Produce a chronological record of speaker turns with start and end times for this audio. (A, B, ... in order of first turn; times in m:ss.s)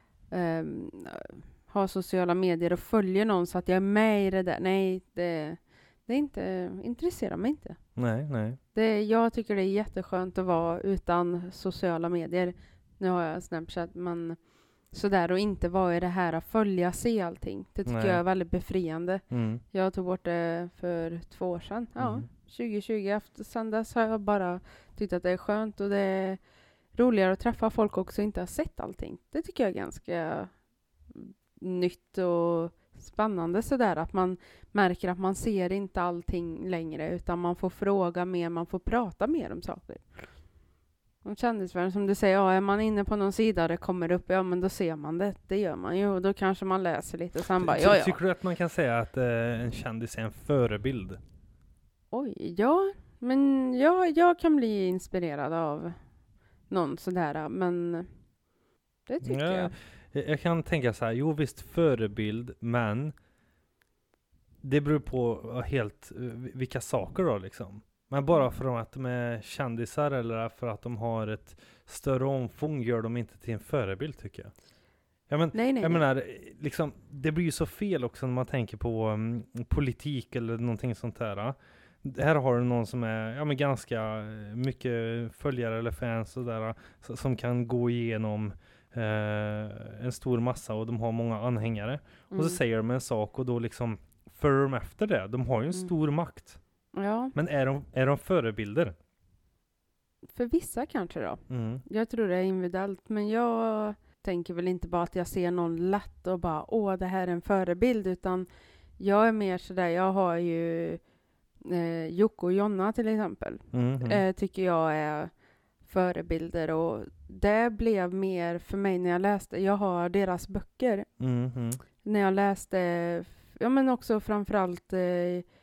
0:00.3-0:07.8 A
0:08.0-0:08.6 B
0:08.7-0:14.4 A
0:14.9-0:26.4 A
0:17.8-0:18.2 B
0:19.3-0:19.6 B
0:22.0-0:22.3 B
0:26.9-0:30.5 A
0:31.1-0:40.0 A
0:41.2-0:48.2 A
0:47.6-0:51.2 B
0:52.1-0:56.0 A
0:56.7-0:58.1 A
0:59.1-0:59.7 A
0:59.2-1:03.1 B
1:04.6-1:14.5 B
1:15.3-1:36.6 B
1:15.5-1:16.0 A
1:32.3-1:32.6 A
1:36.9-1:37.3 A
1:37.3-1:38.9 B
1:40.3-1:48.5 A
1:41.5-1:41.8 B
1:49.0-1:51.0 A
1:51.6-1:55.3 A
1:53.7-1:54.2 B
1:55.8-2:01.1 A
2:01.2-2:01.8 B
2:02.0-2:05.4 A